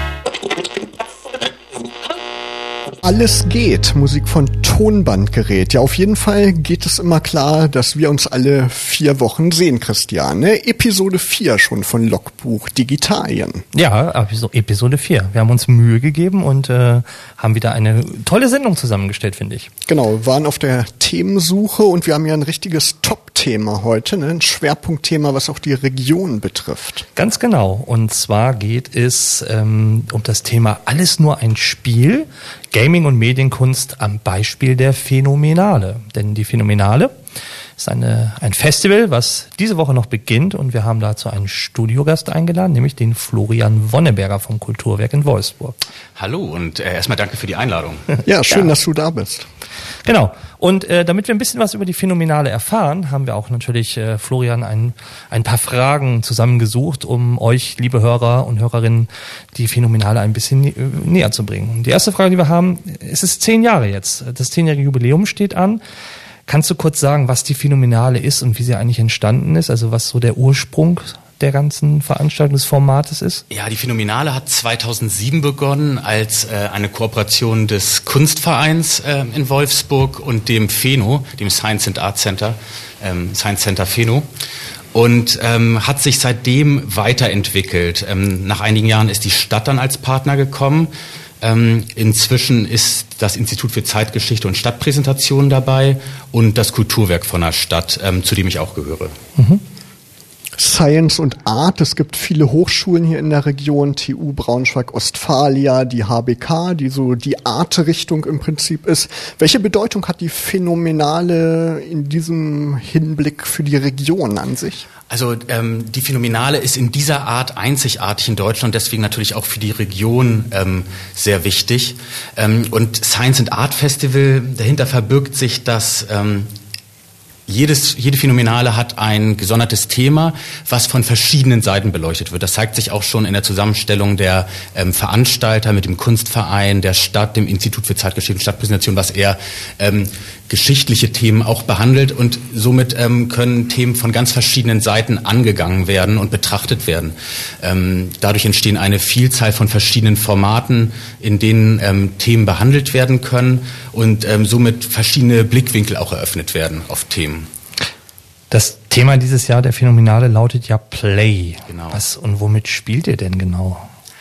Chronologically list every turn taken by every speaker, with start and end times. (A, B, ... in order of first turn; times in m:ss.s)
0:03.0-0:13.6 A
0:13.7-0:19.7 B
0:19.9-0:27.0 A
0:27.2-0:37.1 B
0:37.8-0:45.8 B
0:46.2-0:48.2 C
0:48.2-0:49.4 A
0:50.0-1:05.8 B
1:06.5-1:13.4 B
1:13.5-1:24.2 C
1:24.9-1:39.1 C
1:39.4-1:39.6 B
1:40.6-1:54.9 A
1:55.1-2:06.5 C
2:07.5-2:37.5 C
2:38.5-2:43.9 B
2:41.7-2:42.0 C